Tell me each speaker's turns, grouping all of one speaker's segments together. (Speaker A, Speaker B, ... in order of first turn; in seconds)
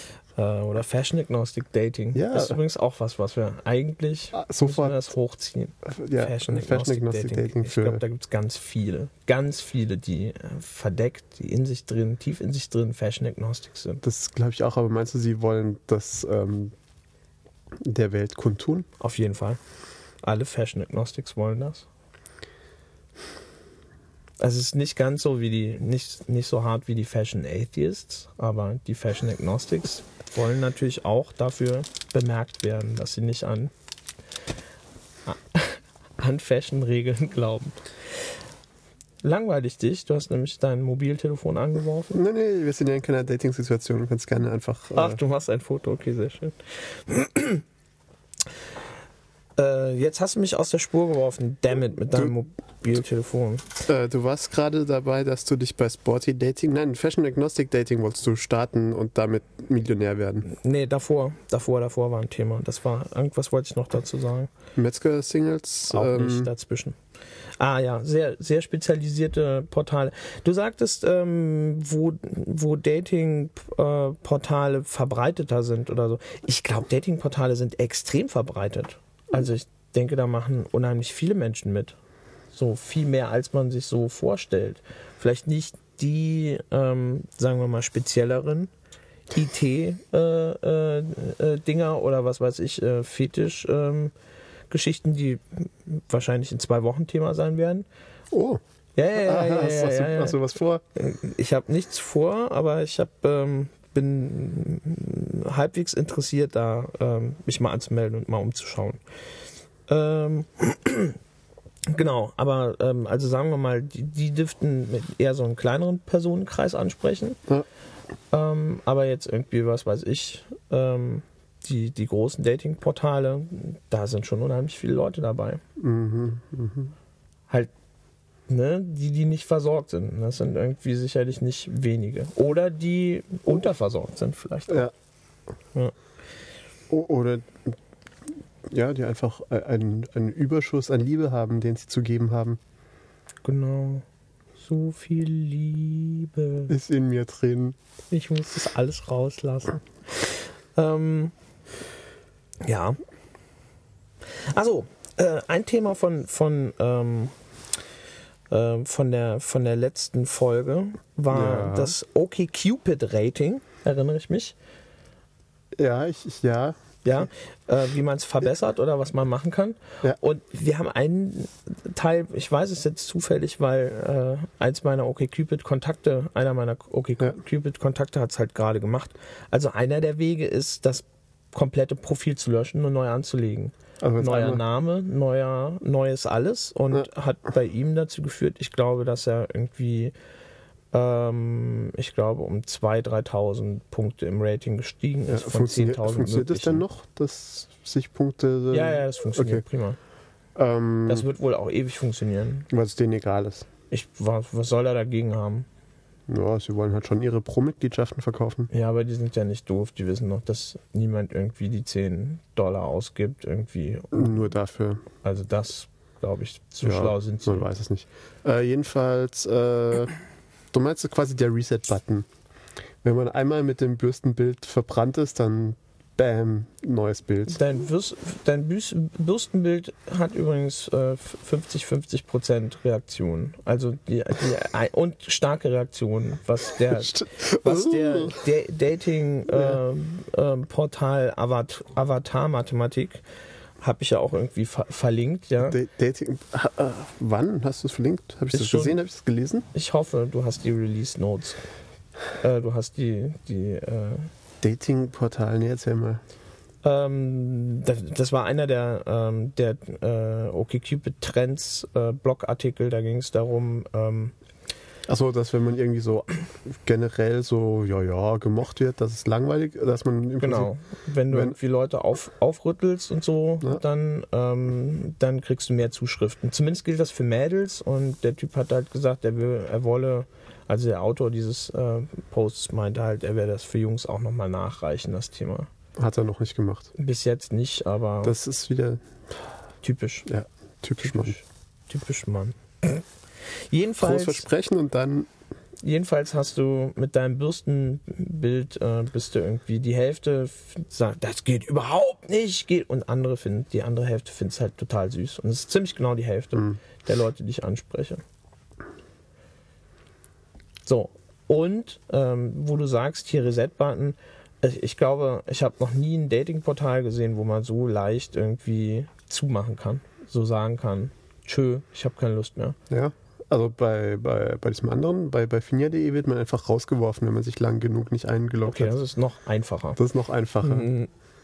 Speaker A: 0.3-14.0, 19.0-19.6, 20.2-21.9, 24.4-33.7, 35.2-37.9, 39.2-42.2, 44.9-47.6, 49.6-53.7, 60.5-64.5, 65.9-67.0, 67.6-82.0, 82.5-88.7, 89.3-94.1, 94.7-97.8, 99.0-100.4, 100.9-109.0, 109.9-111.2, 111.9-117.4, 118.3-125.6, 128.5-134.9, 143.4-144.0, 144.6-146.7, 148.1-151.3, 152.6-153.0, 154.3-157.3, 158.5-164.5, 167.0-190.1, 190.9-196.8, 198.7-200.0, 201.1-202.7, 203.9-205.7, 208.7-214.5, 215.2-217.7, 227.5-243.2, 243.8-245.8, 248.5-249.0, 249.7-251.6, 252.4-254.3, 256.8-264.3, 270.4-285.7, 287.0-288.4, 289.8-290.3, 291.0-293.0, 293.7-294.4, 295.8-308.2, 310.8-322.8, 328.6-330.0, 330.6-331.1
Speaker B: 2.1-2.6, 4.3-5.1, 5.8-8.0, 14.0-16.7, 17.8-18.9, 42.1-45.2, 53.9-60.5, 64.8-66.5, 98.3-98.6, 99.1-100.8, 125.8-126.9, 136.9-137.8, 138.7-142.6, 146.7-147.8, 161.3-161.9, 165.8-166.8, 184.0-184.6, 195.3-199.6, 200.6-201.2, 202.7-203.7, 206.3-208.7, 214.1-215.0, 216.8-220.1, 220.7-222.3, 223.0-227.6, 236.9-238.4, 239.5-239.8, 245.6-249.7, 254.6-256.2, 265.1-270.7, 271.3-271.6, 286.0-286.9, 288.2-289.0, 290.3-291.3, 294.0-295.3, 322.9-328.9, 330.0-330.9